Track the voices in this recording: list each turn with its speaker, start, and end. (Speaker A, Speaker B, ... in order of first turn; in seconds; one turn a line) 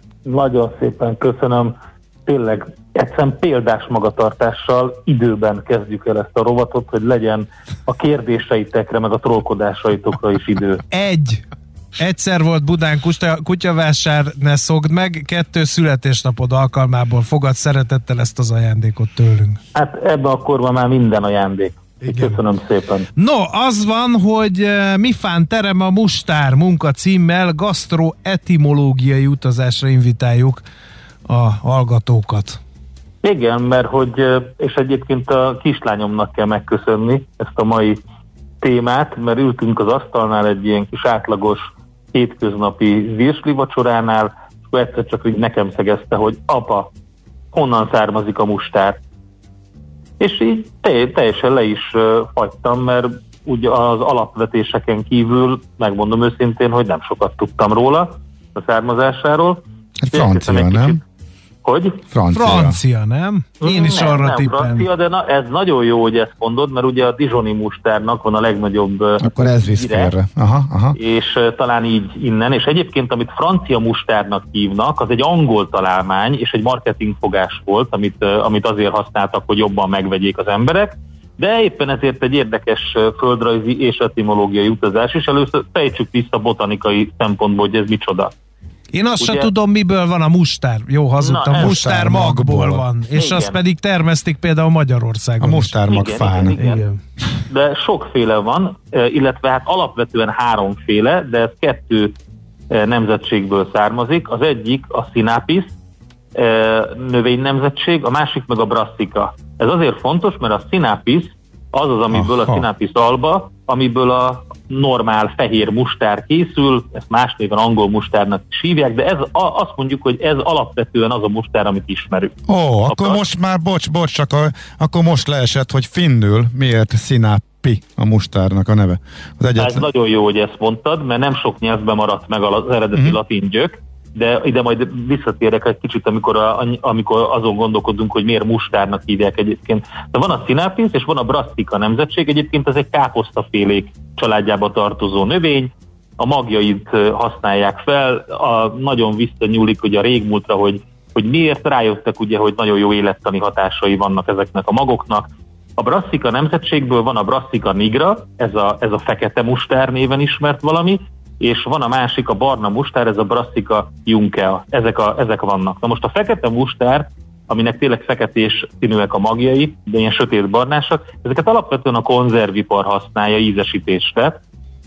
Speaker A: 0.2-10.8
Speaker B: 10.9-11.4
Speaker B: 12.0-19.6
Speaker A: 19.7-23.1
Speaker B: 22.0-22.4
Speaker B: 23.2-30.6
Speaker B: 31.3-32.6
Speaker A: 33.2-38.0
Speaker A: 38.6-46.9
Speaker A: 47.5-49.0
Speaker A: 50.2-59.6
Speaker C: 60.0-61.0
Speaker A: 60.1-61.0
Speaker A: 61.6-62.0
Speaker C: 62.1-62.8
Speaker B: 62.3-64.9
Speaker A: 63.6-70.1
Speaker C: 69.2-71.0
Speaker A: 71.0-88.3
Speaker B: 88.9-95.8
Speaker A: 89.2-89.5
Speaker A: 91.2-91.9
Speaker C: 91.5-92.9
Speaker A: 93.1-93.6
Speaker C: 95.4-96.6
Speaker A: 95.9-96.8
Speaker B: 96.6-97.0
Speaker A: 97.5-102.2
Speaker A: 102.7-105.7
Speaker A: 106.3-122.4
Speaker C: 112.1-112.7
Speaker C: 122.5-129.9
Speaker A: 122.9-123.2
Speaker A: 129.6-174.4